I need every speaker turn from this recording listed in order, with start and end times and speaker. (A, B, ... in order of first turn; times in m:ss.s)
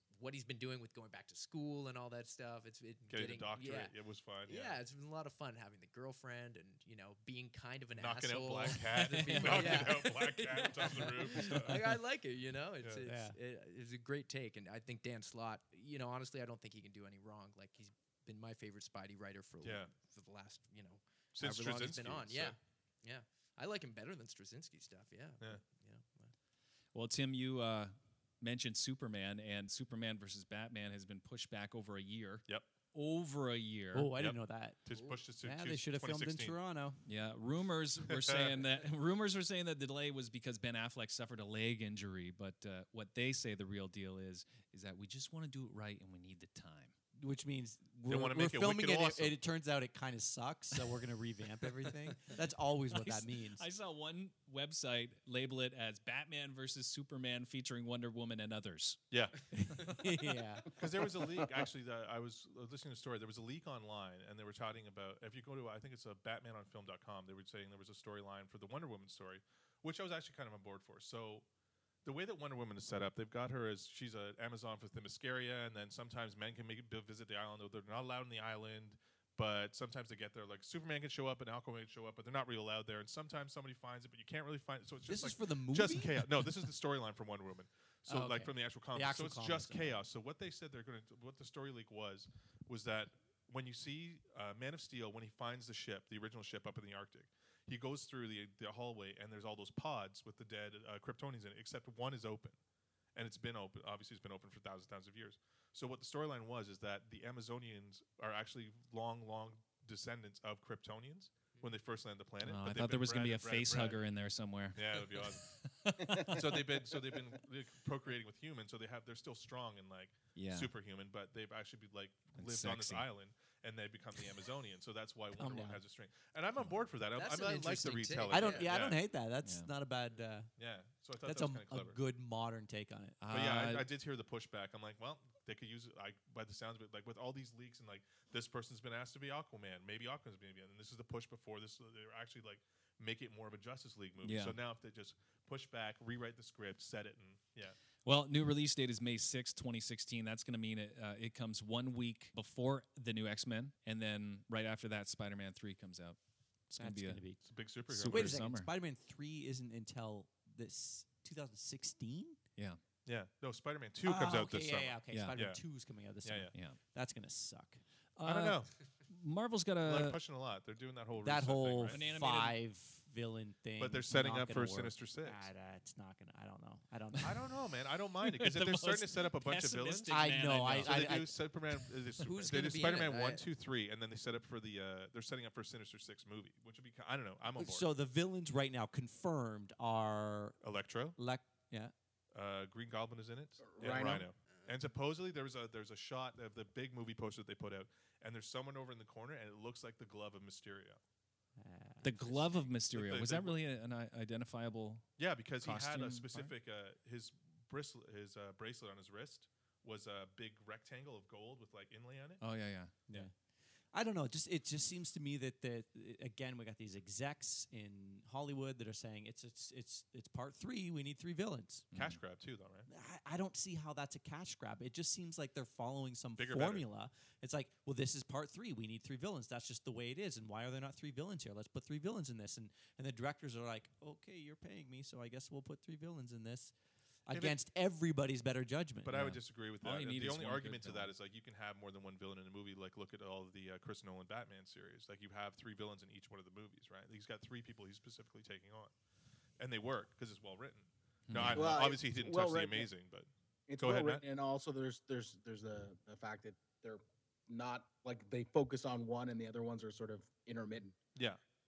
0:00.1-0:04.0 A
0:03.1-0:04.8 B
0:04.5-0:26.3 A
0:08.0-0:11.9 B
0:09.3-0:09.8 C
0:13.0-0:13.4 C
0:19.6-0:19.9 B
0:21.3-0:22.6 B
0:26.9-0:34.1 D
0:33.9-0:37.0 C
0:34.2-0:36.6 B
0:34.9-0:35.2 A
0:37.1-0:46.9 D
0:38.1-0:38.5 B
0:47.2-0:53.6 C
0:48.1-0:49.4 B
0:52.9-0:59.0 D
0:59.1-0:59.8 B
0:59.6-1:00.7 C
1:00.8-1:11.4 B
1:12.0-1:42.6 B
1:25.1-1:26.5 C
1:28.1-1:30.0 C
1:43.2-1:54.0 B
1:52.4-1:56.5 D
1:54.8-1:55.4 B
1:56.3-2:09.0 B
2:00.4-2:00.7 D
2:02.4-2:03.1 D
2:05.4-2:05.8 C
2:07.1-2:08.7 A
2:08.3-2:10.5 C
2:09.4-2:09.7 D
2:10.6-2:12.0 B
2:11.2-2:13.2 C
2:13.2-2:13.9 D
2:13.3-2:27.8 B
2:24.2-2:24.6 D
2:28.0-2:36.2 D
2:36.7-2:37.2 D
2:36.8-2:37.4 C
2:37.4-2:38.4 B
2:37.9-2:38.7 D
2:38.1-2:42.4 C
2:43.0-2:45.6 B
2:44.0-2:47.8 C
2:46.2-2:46.5 B
2:48.2-2:50.2 D
2:48.2-2:48.7 B
2:49.8-2:52.0 B
2:51.2-2:57.4 C
2:51.9-2:52.6 D
2:53.8-2:55.5 B
2:57.2-3:07.9 B
2:58.3-3:01.2 D
3:00.1-3:01.4 C
3:02.2-3:03.5 A
3:07.6-3:10.6 C
3:10.6-3:11.2 B
3:11.2-3:11.9 C
3:12.3-3:21.0 B
3:13.6-3:14.3 E
3:21.6-3:22.6 C
3:22.0-3:25.1 D
3:22.9-3:23.6 B
3:25.2-3:32.4 B
3:25.6-3:26.5 D
3:32.4-3:33.0 D
3:33.9-3:41.9 C
3:41.9-3:42.2 D
3:41.9-3:42.9 B
3:42.9-3:56.7 C
3:46.4-3:46.9 B
3:57.3-3:59.4 C
3:57.3-3:57.6 B
3:59.0-4:08.9 B
3:59.8-4:01.1 D
4:09.6-4:14.2 B
4:11.3-4:11.8 D
4:11.5-4:12.9 E
4:13.7-4:21.0 E